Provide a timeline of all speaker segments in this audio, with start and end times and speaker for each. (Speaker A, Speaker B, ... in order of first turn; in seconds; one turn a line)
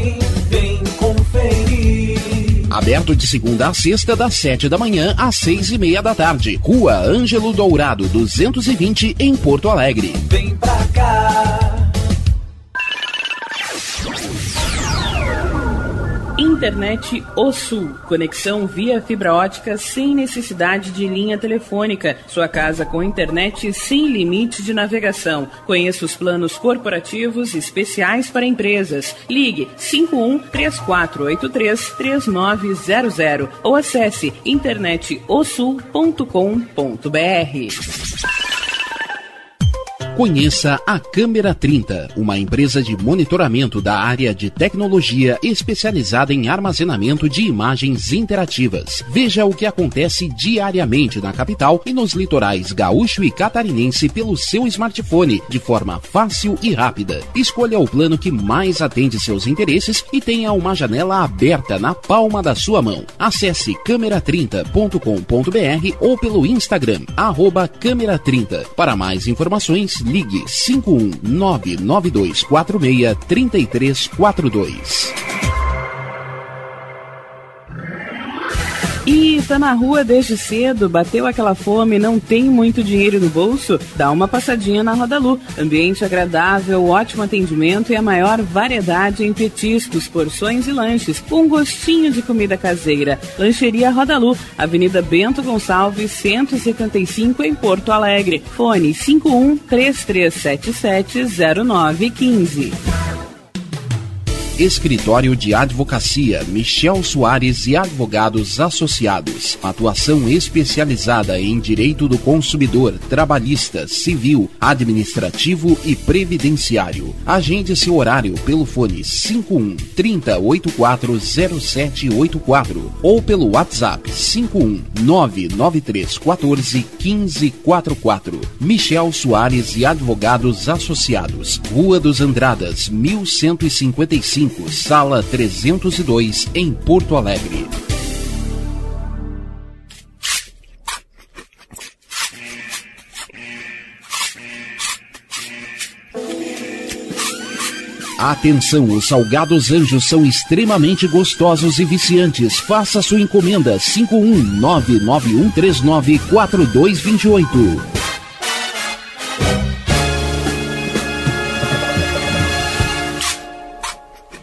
Speaker A: 0.3-2.2
Speaker B: 2.7-10.3
Speaker A: 10.4-11.4
Speaker C: 16.4-37.8
Speaker B: 40.1-75.1
Speaker C: 79.0-102.8
Speaker B: 104.6-137.7
Speaker B: 148.2-157.8